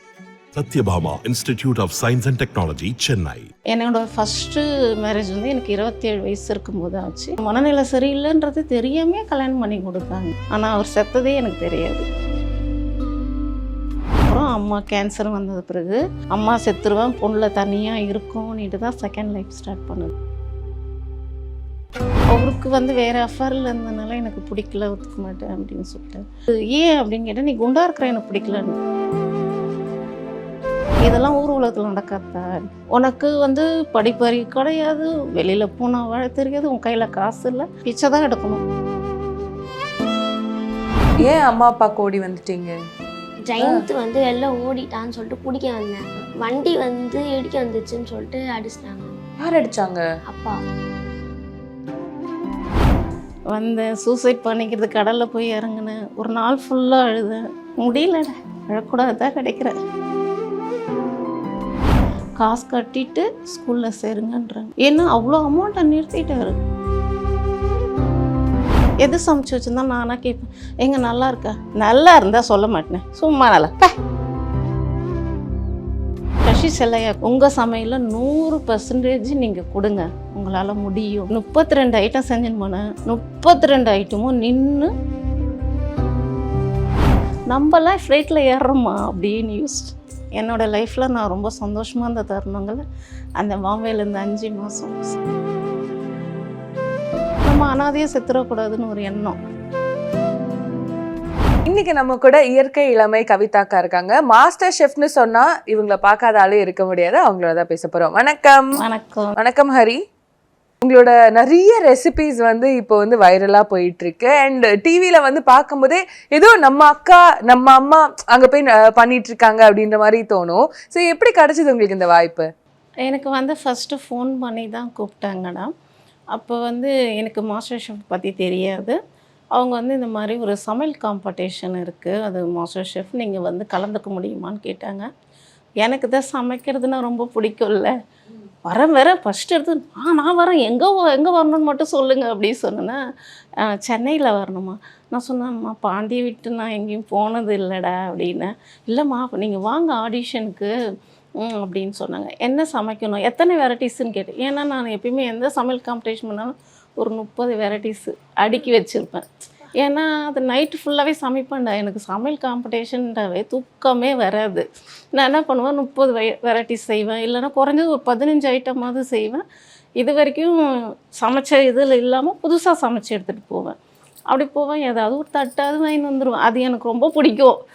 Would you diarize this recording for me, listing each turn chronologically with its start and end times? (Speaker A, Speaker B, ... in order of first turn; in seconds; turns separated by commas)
Speaker A: 0.5-3.5, Speaker B: 3.7-12.1, Speaker B: 14.3-20.1, Speaker B: 22.3-28.8, Speaker B: 31.0-38.6, Speaker C: 41.2-42.7, Speaker D: 43.5-49.1, Speaker C: 49.4-50.0, Speaker D: 50.3-50.6, Speaker B: 53.5-59.8, Speaker B: 62.4-66.5, Speaker B: 69.0-73.9, Speaker B: 76.4-84.9, Speaker B: 87.5-92.8, Speaker B: 93.4-95.2, Speaker B: 97.5-99.4, Speaker C: 101.7-108.8, Speaker B: 108.8-109.3, Speaker C: 109.4-110.0, Speaker C: 110.8-122.5, Speaker B: 123.0-125.7, Speaker B: 126.3-129.0, Speaker B: 129.5-135.0, Speaker B: 135.8-137.9, Speaker B: 138.7-143.0, Speaker B: 143.6-150.7, Speaker B: 151.4-159.3, Speaker B: 159.8-169.4, Speaker B: 170.0-170.5, Speaker B: 171.2-173.8, Speaker B: 174.3-177.6